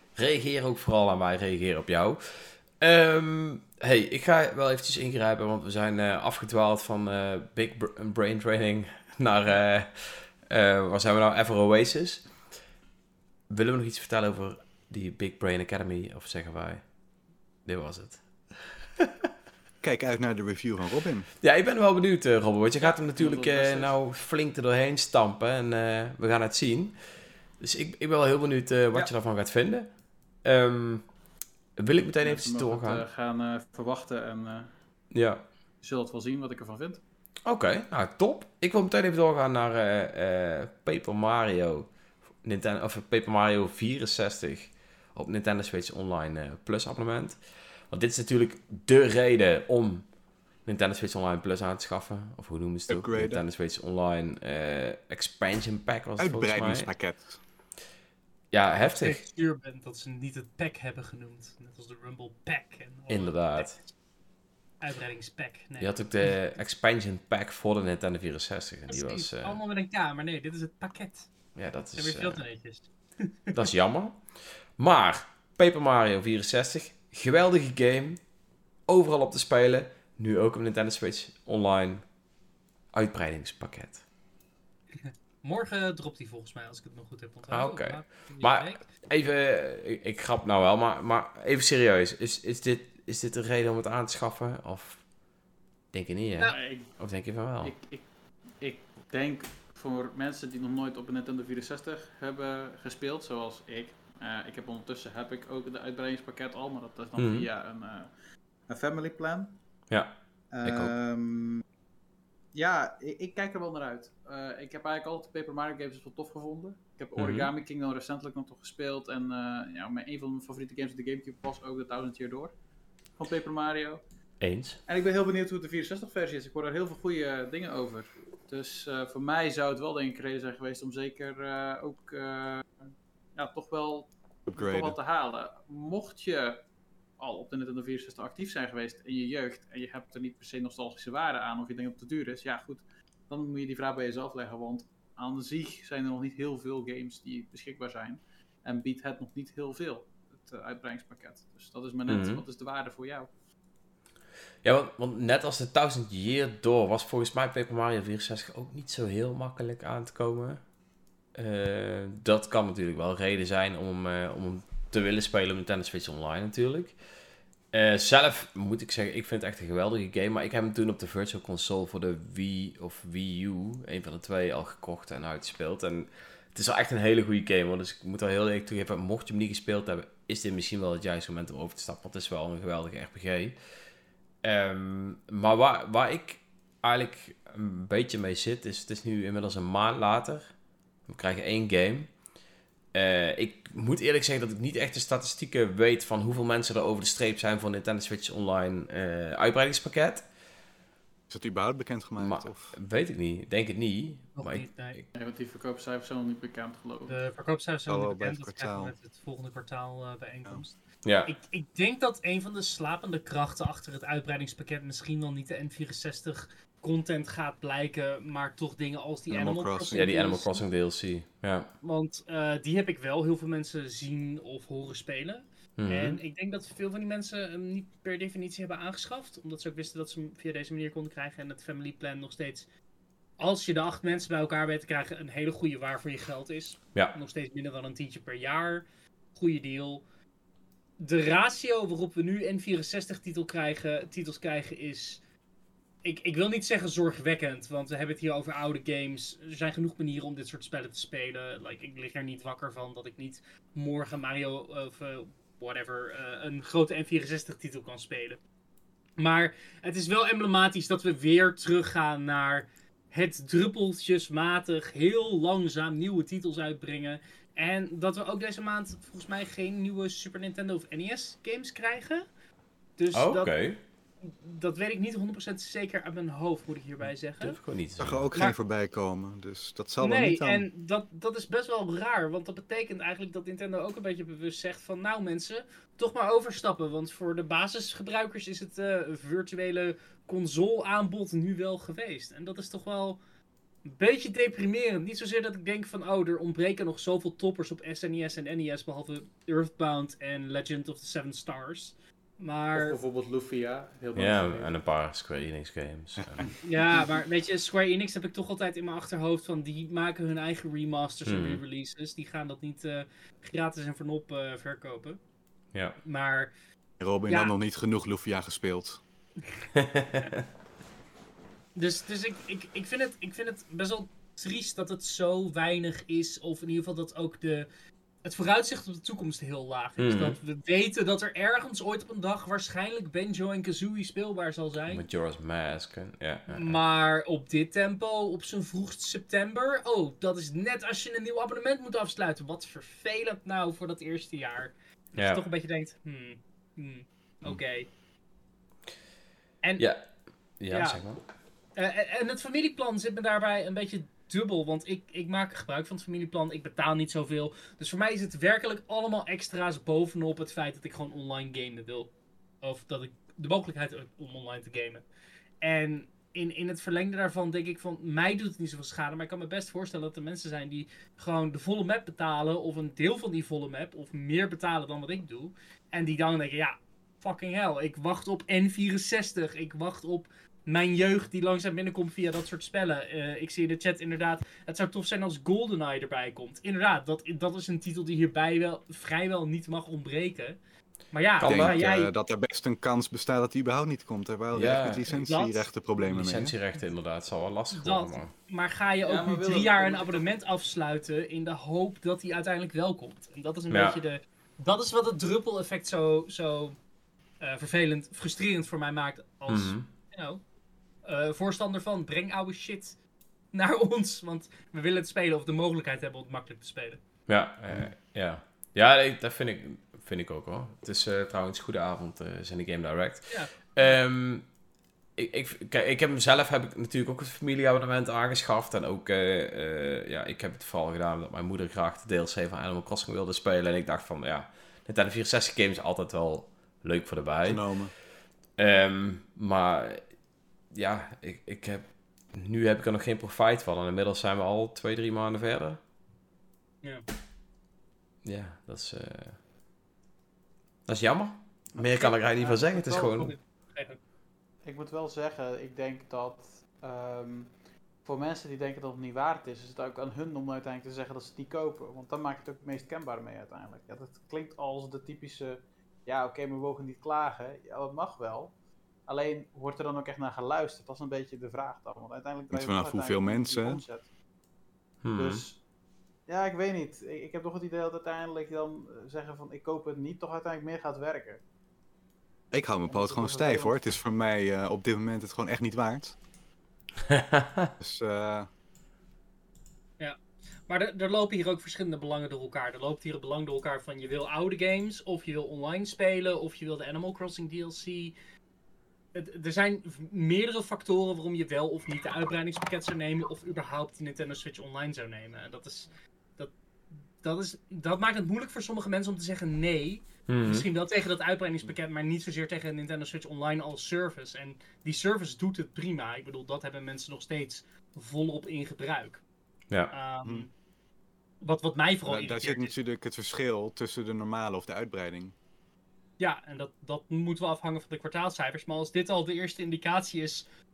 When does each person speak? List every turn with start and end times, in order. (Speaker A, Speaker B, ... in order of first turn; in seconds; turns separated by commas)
Speaker A: 0.1-12.3, Speaker A: 13.5-16.8, Speaker A: 17.6-19.1, Speaker B: 19.8-21.3, Speaker A: 21.4-27.0, Speaker C: 22.8-23.9, Speaker A: 27.6-29.9, Speaker A: 30.4-31.1, Speaker A: 31.8-33.0, Speaker C: 32.2-34.7, Speaker A: 35.1-35.5, Speaker C: 35.8-37.0, Speaker A: 37.5-41.9, Speaker A: 42.4-47.4, Speaker A: 47.9-50.0, Speaker A: 50.6-56.9, Speaker B: 52.9-53.4, Speaker B: 56.2-57.4, Speaker A: 58.5-59.2, Speaker D: 58.9-63.8, Speaker A: 63.1-63.8, Speaker D: 64.8-66.0, Speaker A: 65.8-69.5, Speaker D: 68.9-71.3, Speaker A: 71.5-72.4, Speaker D: 72.0-73.6, Speaker A: 73.5-78.2, Speaker A: 78.9-82.0, Speaker A: 82.9-84.0, Speaker D: 85.0-88.8, Speaker A: 87.5-95.1, Speaker A: 95.9-97.7, Speaker C: 96.5-96.9, Speaker C: 97.6-98.1, Speaker C: 98.6-108.1, Speaker A: 107.2-107.5, Speaker C: 108.7-109.6, Speaker A: 109.9-110.9, Speaker C: 110.5-111.6, Speaker C: 112.5-122.5, Speaker A: 117.2-117.5, Speaker C: 123.2-124.0, Speaker A: 124.4-124.8, Speaker C: 124.9-132.7, Speaker C: 133.3-136.6, Speaker B: 134.5-135.0, Speaker C: 137.2-153.3, Speaker A: 152.1-152.4, Speaker A: 154.6-160.6, Speaker A: 161.3-166.9, Speaker A: 167.7-183.6, Speaker A: 184.4-190.5, Speaker A: 191.1-192.1, Speaker A: 192.9-200.2, Speaker B: 201.3-202.7, Speaker A: 202.2-205.0, Speaker D: 204.3-205.0, Speaker C: 205.1-207.2, Speaker D: 207.1-220.6, Speaker B: 207.9-208.9, Speaker A: 211.0-211.3, Speaker B: 219.3-220.0, Speaker A: 219.9-221.7, Speaker D: 221.8-232.7, Speaker A: 225.8-226.2, Speaker D: 233.4-240.0, Speaker D: 241.0-245.2, Speaker D: 246.0-258.4, Speaker D: 259.2-272.2, Speaker D: 273.0-273.5, Speaker A: 273.1-273.8, Speaker D: 274.2-277.6, Speaker A: 277.4-278.3, Speaker B: 278.0-280.6, Speaker D: 280.0-293.2, Speaker D: 293.8-303.0, Speaker C: 302.7-304.7, Speaker A: 304.1-306.5, Speaker D: 306.6-315.2, Speaker A: 311.2-311.6, Speaker D: 316.0-316.5, Speaker B: 317.0-319.0, Speaker D: 317.3-317.5, Speaker A: 319.7-320.4, Speaker D: 321.7-327.7, Speaker D: 328.2-335.0, Speaker A: 330.0-330.4, Speaker A: 334.9-336.8, Speaker D: 336.5-347.9, Speaker A: 349.8-351.2, Speaker D: 350.7-351.0, Speaker D: 351.8-365.0, Speaker D: 365.6-390.6, Speaker D: 391.1-392.1, Speaker A: 391.4-391.8, Speaker B: 391.4-396.5, Speaker A: 394.5-395.1, Speaker D: 395.2-395.7, Speaker A: 396.0-398.3, Speaker D: 397.7-406.8, Speaker C: 399.0-400.3, Speaker A: 403.7-404.0, Speaker D: 407.4-410.4, Speaker A: 409.5-409.9, Speaker D: 411.0-412.9, Speaker D: 413.5-417.0, Speaker A: 417.3-424.4, Speaker A: 425.1-437.6, Speaker B: 437.4-437.9, Speaker A: 438.6-440.0, Speaker A: 440.7-445.8, Speaker A: 448.2-449.4, Speaker A: 450.9-453.3, Speaker D: 451.8-454.0, Speaker C: 454.6-468.5, Speaker C: 469.1-474.1, Speaker B: 472.5-473.8, Speaker A: 475.0-475.4, Speaker C: 475.1-475.6, Speaker C: 476.3-481.4, Speaker B: 482.5-486.1, Speaker C: 482.8-483.8, Speaker A: 487.1-487.7, Speaker B: 487.8-488.5, Speaker D: 490.0-498.1, Speaker D: 499.1-506.5, Speaker D: 507.2-519.2, Speaker A: 510.3-510.7, Speaker D: 519.9-520.5, Speaker D: 521.4-522.7, Speaker B: 522.1-525.3, Speaker D: 526.2-530.4